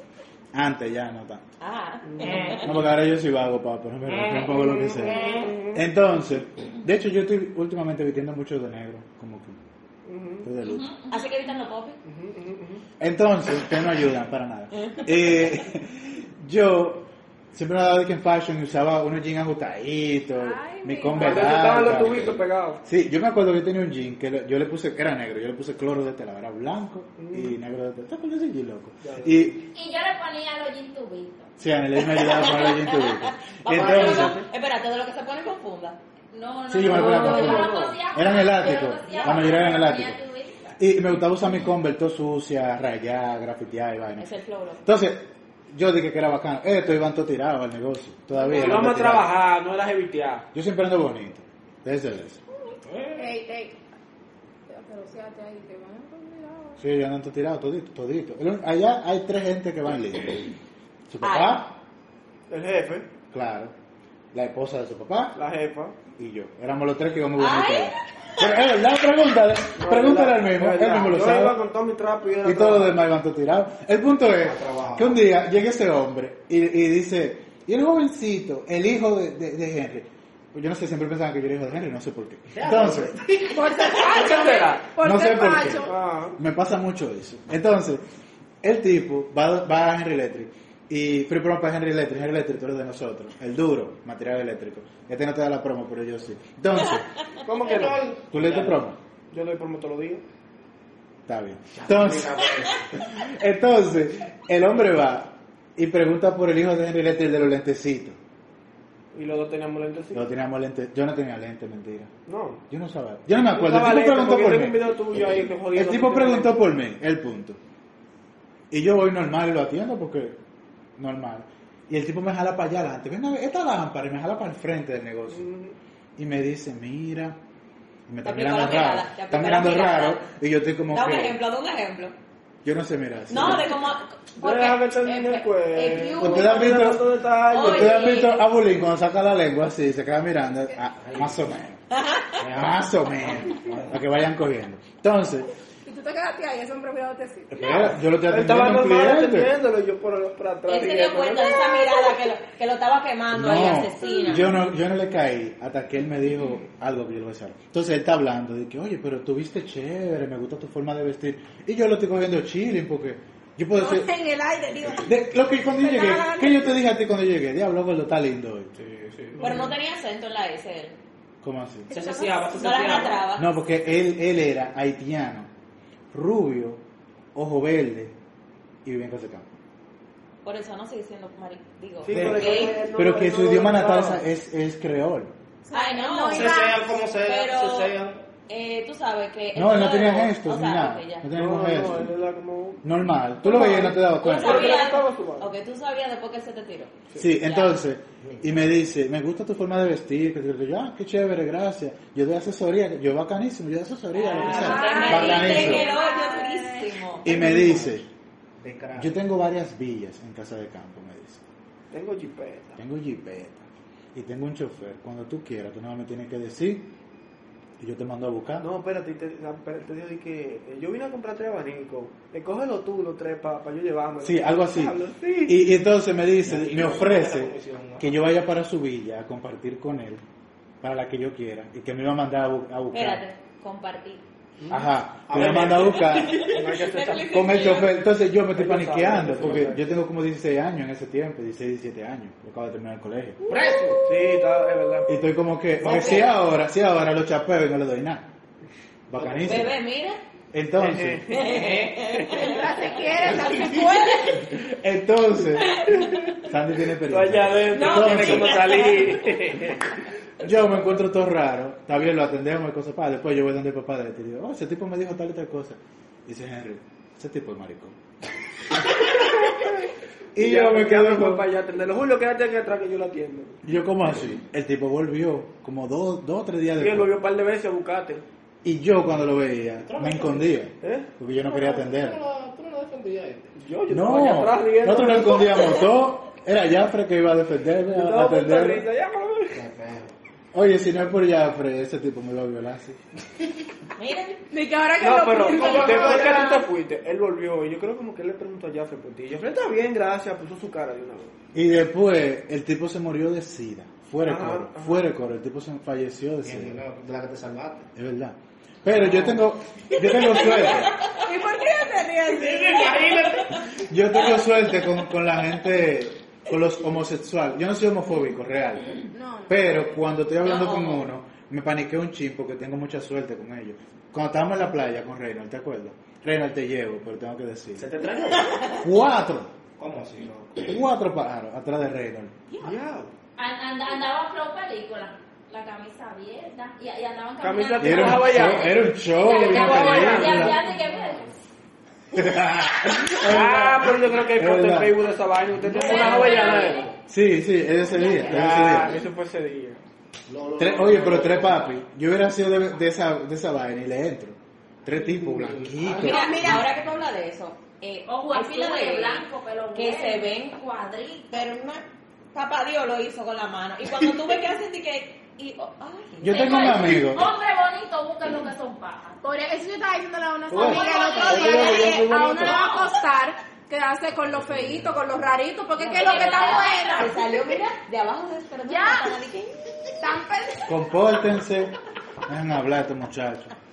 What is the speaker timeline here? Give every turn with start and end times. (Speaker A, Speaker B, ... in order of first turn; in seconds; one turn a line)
Speaker A: 0.5-1.4
Speaker B: 1.6-2.7
Speaker C: 2.0-2.6
Speaker D: 2.2-2.6
Speaker A: 2.6-5.2
Speaker D: 4.0-5.5
Speaker C: 4.5-5.8
Speaker A: 5.7-9.6
Speaker C: 10.1-10.5
Speaker A: 10.4-10.9
Speaker E: 10.6-11.3
Speaker B: 11.1-12.0
Speaker C: 12.0-12.8
Speaker A: 13.0-29.6
Speaker B: 14.8-15.1
Speaker F: 20.4-21.9
Speaker C: 21.1-22.8
Speaker C: 27.2-27.5
Speaker C: 29.0-29.4
Speaker E: 29.7-31.5
Speaker A: 31.6-34.4
Speaker B: 32.0-36.0
Speaker C: 33.7-34.5
Speaker E: 36.3-40.8
Speaker A: 36.7-40.2
Speaker C: 36.8-38.1
Speaker C: 39.1-39.5
Speaker A: 40.8-44.3
Speaker B: 44.2-44.8
Speaker A: 44.8-49.3
Speaker C: 48.4-50.5
Speaker A: 50.5-52.4
Speaker F: 52.6-53.8
Speaker D: 52.8-53.4
Speaker F: 54.7-56.8
Speaker A: 56.8-60.5
Speaker A: 61.1-61.7
Speaker B: 61.2-61.6
Speaker C: 62.5-63.1
Speaker A: 63.3-63.7
Speaker A: 64.3-65.4
Speaker C: 65.3-65.9
Speaker A: 66.2-71.6
Speaker B: 67.4-68.5
Speaker C: 69.8-73.0
Speaker A: 72.4-83.1
Speaker D: 74.4-75.2
Speaker D: 82.5-84.2
Speaker F: 83.5-86.0
Speaker C: 84.0-84.8
Speaker A: 85.0-88.0
Speaker C: 85.8-86.4
Speaker A: 88.6-97.1
Speaker C: 97.4-98.0
Speaker D: 97.5-98.8
Speaker A: 98.3-99.0
Speaker C: 99.3-100.2
Speaker A: 101.3-108.2
Speaker D: 101.7-102.8
Speaker C: 109.1-110.2
Speaker A: 110.1-112.1
Speaker C: 112.3-112.6
Speaker A: 112.7-114.8
Speaker C: 113.5-116.6
Speaker A: 115.7-117.6
Speaker A: 118.7-120.4
Speaker A: 121.0-125.4
Speaker C: 125.3-125.7
Speaker A: 126.2-127.4
Speaker A: 128.1-131.4
Speaker B: 128.2-130.2
Speaker B: 130.9-132.1
Speaker A: 132.6-133.7
Speaker B: 133.3-136.7
Speaker C: 134.4-138.0
Speaker A: 136.2-141.8
Speaker B: 137.5-138.3
Speaker D: 141.0-141.4
Speaker B: 141.9-142.4
Speaker D: 142.4-144.0
Speaker A: 142.5-145.5
Speaker F: 145.8-147.5
Speaker A: 147.5-149.5
Speaker D: 147.6-147.9
Speaker C: 148.3-152.1
Speaker B: 150.7-154.4
Speaker A: 153.3-164.1
Speaker F: 163.8-165.2
Speaker A: 164.8-168.7
Speaker F: 165.8-166.7
Speaker D: 168.8-169.4
Speaker C: 169.3-169.7
Speaker B: 169.4-171.0
Speaker A: 171.4-171.9
Speaker F: 171.9-173.1
Speaker D: 171.9-173.2
Speaker B: 172.6-173.6
Speaker A: 173.3-175.5
Speaker A: 176.1-176.8
Speaker A: 177.3-178.1
Speaker A: 178.8-179.6
Speaker B: 180.4-182.8
Speaker C: 182.0-184.2
Speaker A: 182.1-185.3
Speaker F: 185.6-186.7
Speaker B: 185.7-187.9
Speaker D: 186.3-188.2
Speaker B: 188.5-191.2
Speaker A: 189.5-192.1
Speaker C: 191.3-192.8
Speaker A: 192.8-194.8
Speaker C: 193.4-195.5
Speaker B: 193.5-197.8
Speaker A: 197.2-205.9
Speaker D: 198.2-198.5
Speaker B: 204.1-207.3
Speaker E: 204.4-206.8
Speaker F: 204.5-206.2
Speaker A: 207.2-208.0
Speaker D: 207.3-208.0
Speaker D: 208.6-209.2
Speaker A: 208.9-211.4
Speaker C: 211.9-212.8
Speaker A: 212.8-216.9
Speaker A: 217.8-218.7
Speaker C: 218.6-225.6
Speaker A: 224.2-230.2
Speaker D: 226.4-228.2
Speaker A: 230.8-233.2
Speaker B: 232.9-234.2
Speaker C: 234.6-234.9
Speaker A: 234.7-236.6
Speaker D: 235.3-236.1
Speaker B: 235.9-237.9
Speaker C: 236.4-237.4
Speaker A: 237.3-243.4
Speaker C: 238.5-239.9
Speaker D: 243.4-244.0
Speaker C: 244.0-245.1
Speaker A: 245.1-248.3
Speaker D: 245.8-246.3
Speaker A: 249.1-249.8
Speaker D: 249.1-249.7
Speaker B: 249.4-250.2
Speaker A: 250.5-251.2
Speaker C: 250.8-252.2
Speaker B: 251.3-253.0
Speaker F: 252.3-254.5
Speaker A: 254.3-255.9
Speaker B: 255.8-256.3
Speaker C: 255.9-256.2
Speaker A: 256.4-258.7
Speaker C: 257.1-259.9
Speaker B: 257.7-259.1
Speaker A: 260.4-268.0
Speaker C: 269.4-269.7
Speaker A: 270.4-271.4
Speaker C: 270.4-273.6
Speaker A: 273.6-277.1
Speaker C: 276.8-278.2
Speaker A: 278.6-282.2
Speaker D: 279.8-280.5
Speaker C: 280.8-281.1
Speaker D: 281.4-283.5
Speaker C: 283.6-285.8
Speaker A: 283.9-288.9
Speaker C: 287.9-289.6
Speaker D: 289.5-290.1
Speaker A: 290.5-293.0
Speaker B: 294.0-294.4
Speaker F: 294.5-296.5
Speaker C: 295.0-301.3
Speaker D: 295.4-296.6
Speaker A: 301.5-306.8
Speaker C: 304.2-305.0
Speaker D: 306.4-307.9
Speaker A: 307.9-310.9
Speaker C: 308.9-309.4
Speaker F: 310.0-313.1
Speaker D: 312.2-313.5
Speaker A: 313.7-327.9
Speaker F: 319.1-319.7
Speaker B: 320.4-321.1
Speaker D: 327.8-328.7
Speaker A: 328.8-329.5
Speaker D: 329.8-330.7
Speaker A: 330.6-332.4
Speaker C: 332.6-333.1
Speaker E: 333.4-341.3
Speaker C: 337.4-338.7
Speaker A: 337.8-340.6
Speaker C: 339.5-340.6
Speaker D: 339.9-341.2
Speaker A: 342.1-345.0
Speaker C: 343.2-346.9
Speaker D: 345.6-346.9
Speaker E: 345.7-346.9
Speaker A: 347.1-348.9
Speaker E: 347.8-348.3
Speaker C: 348.3-349.8
Speaker D: 348.3-348.9
Speaker D: 350.3-351.7
Speaker A: 350.6-356.7
Speaker D: 354.9-356.1
Speaker B: 356.0-360.6
Speaker F: 356.1-356.3
Speaker E: 358.1-361.4
Speaker B: 361.3-366.9
Speaker A: 366.2-367.3
Speaker E: 366.3-369.2
Speaker F: 369.2-377.2
Speaker C: 370.5-372.6
Speaker E: 370.6-371.8
Speaker B: 370.9-371.6
Speaker E: 372.5-372.9
Speaker B: 375.8-379.5
Speaker E: 375.9-377.1
Speaker E: 378.6-379.2
Speaker F: 380.0-380.8
Speaker A: 380.6-381.7
Speaker A: 382.3-383.5